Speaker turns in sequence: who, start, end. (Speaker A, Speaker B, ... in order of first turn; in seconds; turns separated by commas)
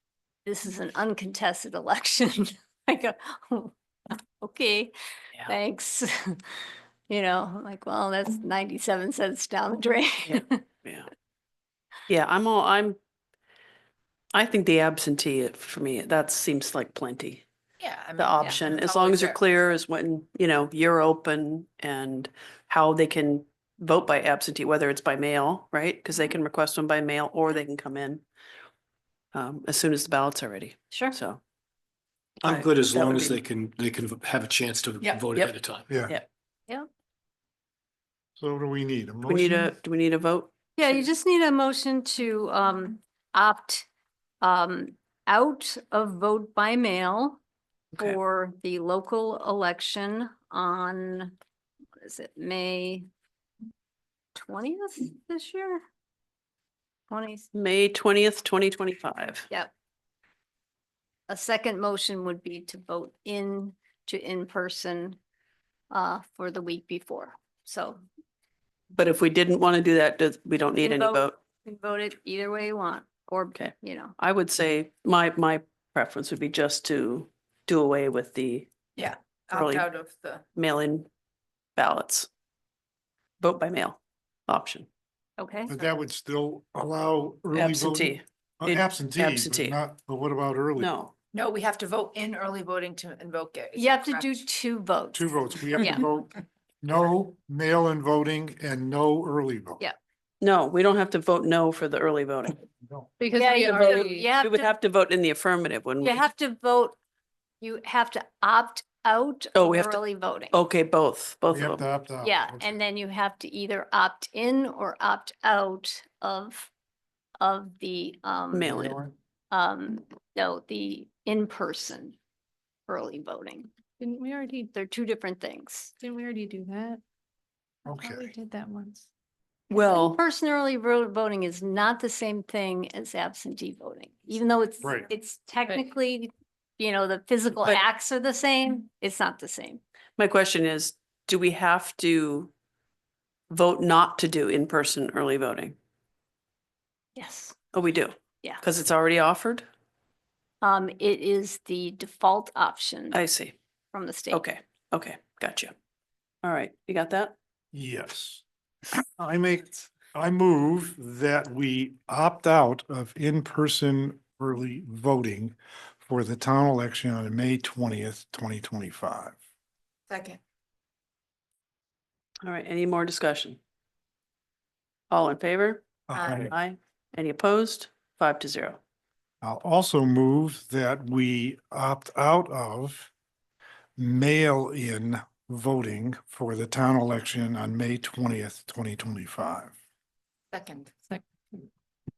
Speaker A: 0.5-3.7, Speaker A: 4.4-4.9, Speaker A: 5.4-6.4, Speaker A: 7.1-10.6, Speaker B: 10.2-11.1, Speaker B: 12.1-13.0, Speaker B: 14.3-17.4, Speaker C: 17.8-19.4, Speaker B: 18.2-28.2, Speaker B: 29.3-31.4, Speaker D: 32.4-35.9, Speaker B: 32.4-33.4, Speaker E: 38.4-39.7, Speaker B: 39.3-41.0, Speaker A: 40.8-43.9, Speaker A: 44.4-47.4, Speaker A: 48.0-51.3, Speaker A: 52.0-53.1, Speaker A: 54.3-55.8, Speaker A: 57.1-57.5, Speaker B: 57.5-59.5, Speaker A: 61.3-65.2, Speaker A: 65.9-68.0, Speaker B: 68.9-71.3, Speaker A: 70.8-74.1, Speaker B: 73.5-78.7, Speaker C: 79.0-80.4, Speaker B: 79.5-79.8, Speaker B: 80.5-81.1, Speaker B: 81.8-82.3, Speaker B: 83.4-84.9, Speaker A: 85.4-85.8, Speaker E: 85.7-90.9, Speaker B: 87.5-89.8, Speaker B: 90.8-91.1, Speaker C: 91.3-94.4, Speaker A: 93.8-96.0, Speaker E: 95.1-99.8, Speaker B: 100.4-102.6, Speaker F: 103.2-104.2, Speaker A: 103.3-104.7, Speaker B: 103.7-106.2, Speaker A: 106.0-107.0, Speaker A: 107.6-110.5, Speaker B: 109.5-110.0, Speaker B: 110.5-111.8, Speaker E: 111.5-112.7, Speaker A: 112.2-116.7, Speaker A: 117.4-118.8, Speaker B: 118.5-119.0, Speaker E: 118.7-119.1, Speaker A: 119.5-122.2, Speaker A: 122.9-123.7, Speaker F: 124.0-124.7, Speaker A: 124.7-125.9, Speaker F: 126.0-127.0, Speaker E: 127.9-128.3, Speaker F: 128.1-129.0, Speaker B: 129.7-130.2, Speaker A: 129.7-139.8, Speaker B: 140.2-142.5, Speaker B: 143.5-145.7, Speaker A: 147.2-147.5, Speaker B: 147.7-149.6, Speaker A: 150.6-153.2, Speaker B: 153.1-153.5, Speaker A: 153.9-154.4, Speaker B: 154.3-155.7, Speaker B: 156.4-157.3, Speaker E: 157.7-158.4, Speaker E: 158.9-169.3, Speaker C: 170.1-170.4, Speaker B: 172.4-173.6, Speaker B: 175.1-175.9, Speaker E: 176.1-176.5, Speaker C: 176.1-176.5, Speaker B: 176.5-178.8, Speaker E: 179.4-183.1, Speaker E: 184.0-189.7, Speaker C: 190.5-191.2